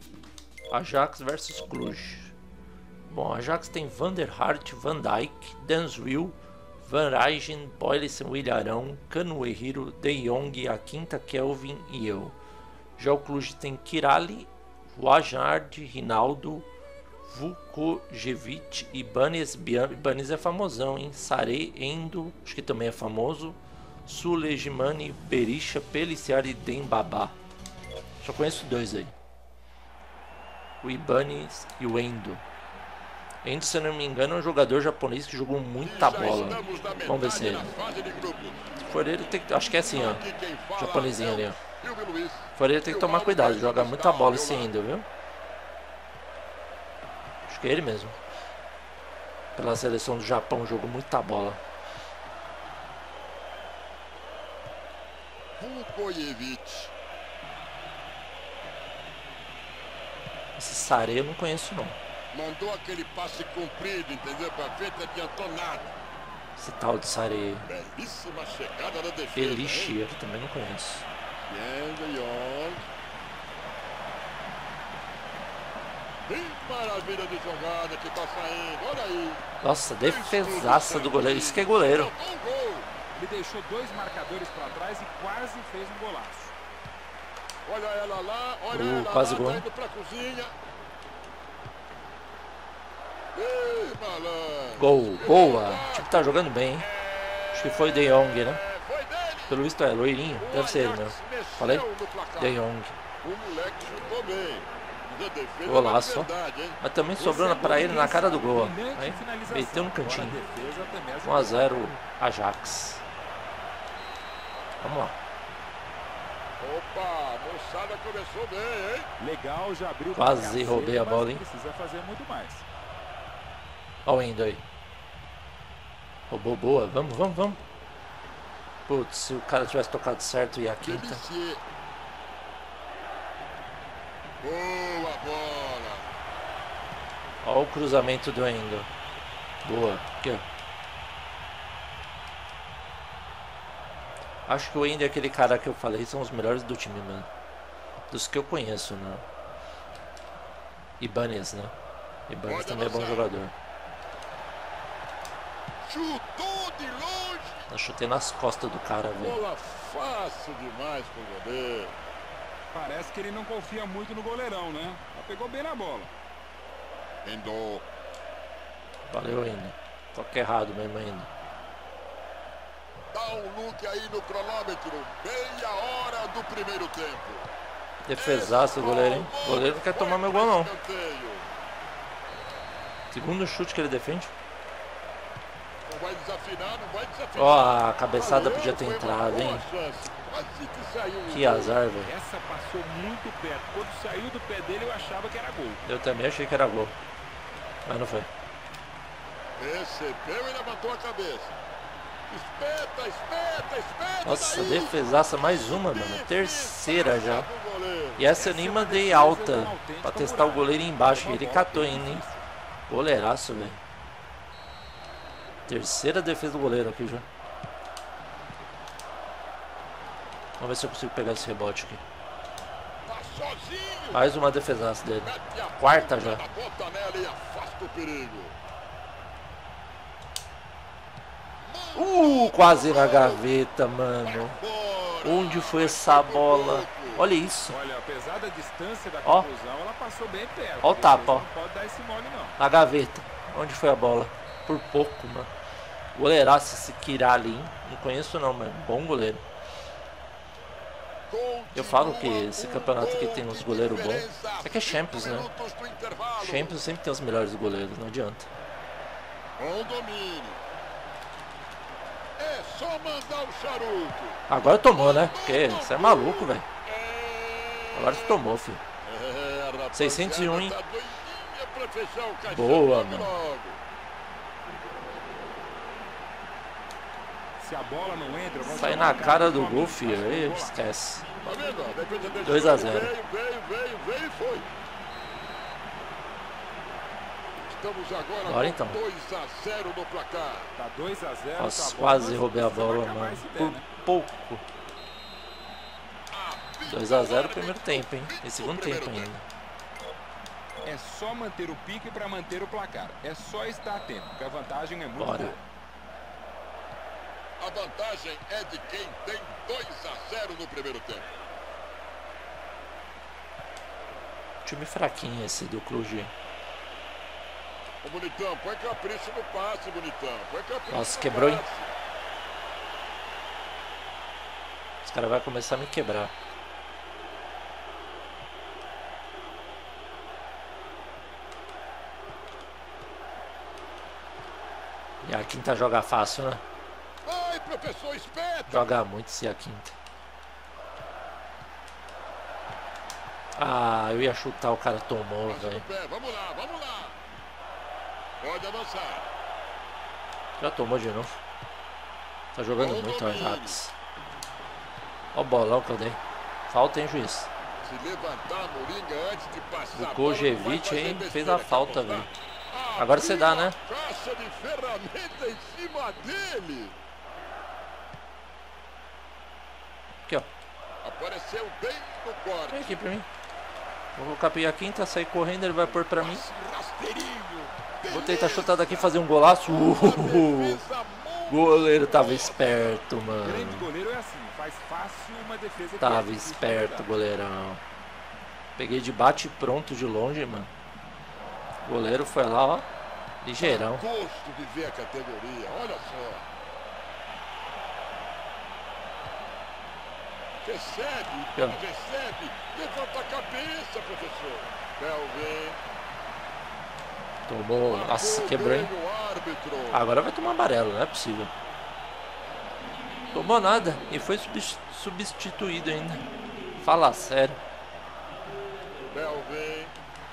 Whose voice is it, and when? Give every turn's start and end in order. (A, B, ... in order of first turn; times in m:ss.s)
0:00.7-0:02.4 A
0:03.1-0:12.4 A
0:13.0-0:16.7 A
0:17.2-0:27.4 A
0:28.2-0:29.2 A
0:30.8-0:32.4 A
0:33.4-0:37.7 A
0:35.8-0:38.6 B
0:38.8-0:41.6 A
0:39.8-0:44.7 B
0:42.6-0:45.1 A
0:47.5-0:48.2 A
0:49.6-0:51.6 A
0:55.6-0:56.9 B
1:00.6-1:02.0 A
1:02.3-1:06.0 B
1:06.6-1:07.7 A
1:07.7-1:10.0 B
1:09.4-1:11.1 A
1:11.5-1:12.8 B
1:16.3-1:19.4 B
1:19.6-1:22.1 A
1:20.0-1:22.9 B
1:23.2-1:26.5 C
1:27.7-1:30.5 B
1:28.7-1:29.7 A
1:33.3-1:39.6 B
1:34.8-1:36.9 A
1:37.5-1:38.6 A
1:39.5-1:41.9 A
1:40.4-1:42.6 B
1:42.4-1:43.0 A
1:43.2-1:46.8 B
1:45.6-1:50.4 A
1:47.2-1:51.8 C
1:51.2-1:53.0 A
1:54.8-1:55.2 A
1:56.6-1:59.1 B
1:59.2-2:02.7 C
2:00.2-2:01.4 A
2:04.0-2:04.6 A
2:06.3-2:07.6 A
2:08.9-2:11.3 A
2:10.8-2:11.6 B
2:14.4-2:16.1 B
2:17.4-2:18.9 A
2:19.6-2:20.4 A
2:24.5-2:27.3 A
2:28.1-2:29.2 A
2:31.0-2:31.8 A
2:32.3-2:33.5 A
2:32.4-2:33.3 B
2:35.8-2:37.7 B
2:37.7-2:39.4 A
2:39.2-2:41.9 B
2:42.7-2:46.1 C
2:47.2-2:47.8 B
2:49.1-2:51.3 A
2:53.1-2:57.5 B
2:58.1-3:00.7 A
2:58.2-3:01.5 B
3:03.1-3:04.3 A
3:05.9-3:11.8 B
3:07.4-3:09.6 A
3:11.3-3:12.1 A
3:12.0-3:15.8 C
3:15.9-3:17.0 A
3:17.8-3:18.3 A
3:19.6-3:21.6 B
3:22.3-3:28.3 B
3:24.2-3:27.5 A
3:28.2-3:32.3 A
3:28.4-3:32.5 C
3:32.9-3:33.8 A
3:35.7-3:37.3 A
3:40.6-3:42.0 A
3:43.1-3:44.3 B
3:44.1-3:46.4 A
3:45.2-3:48.6 B
3:51.7-3:53.6 B
3:52.0-3:54.6 A
3:54.2-3:57.3 B
3:55.2-3:57.8 A
3:57.7-4:02.6 C
4:00.8-4:01.5 A
4:02.6-4:05.5 A
4:06.1-4:09.4 A
4:11.3-4:16.8 B
4:11.7-4:15.5 A
4:16.4-4:18.5 A
4:19.6-4:20.6 B
4:22.4-4:24.4 B
4:24.5-4:26.7 A
4:24.9-4:28.4 B
4:27.9-4:28.8 A
4:29.0-4:33.8 B
4:29.9-4:30.8 A
4:32.5-4:33.3 A
4:37.6-4:40.8 C
4:38.7-4:41.4 A
4:41.4-4:44.7 B
4:42.4-4:43.1 A
4:47.7-4:50.7 B
4:48.5-4:49.0 A
4:50.8-4:53.9 C
4:51.6-4:54.6 A
4:56.3-4:59.3 B
4:56.9-4:59.4 A
5:00.8-5:05.6 C
5:05.2-5:05.6 A
5:07.6-5:11.3 B
5:14.6-5:16.3 A
5:18.0-5:21.9 B
5:20.9-5:21.6 A
5:25.0-5:26.3 A
5:35.2-5:36.6 A
5:37.2-5:38.9 B
5:38.7-5:40.0 A
5:43.6-5:45.9 A
5:45.5-5:47.2 B
5:48.4-5:49.3 B
5:50.6-5:51.4 A
5:52.6-5:53.9 A
5:52.7-5:53.8 B
5:55.3-5:57.5 A
5:57.8-6:07.0 B
6:00.0-6:02.3 A
6:03.0-6:03.8 A
6:10.2-6:10.5 A
6:11.0-6:13.0 B
6:12.7-6:13.3 A
6:14.2-6:16.4 A
6:15.9-6:23.0 B
6:18.1-6:20.8 A
6:21.5-6:23.9 A
6:23.4-6:27.1 C
6:26.0-6:27.8 A
6:28.8-6:30.7 A
6:31.8-6:32.9 A
6:33.4-6:34.1 A
6:33.6-6:36.5 B
6:40.6-6:45.8 B
6:47.5-6:48.9 A
6:47.8-6:50.0 B
6:49.9-6:51.5 A
6:53.3-6:57.6 A
6:59.1-6:59.9 B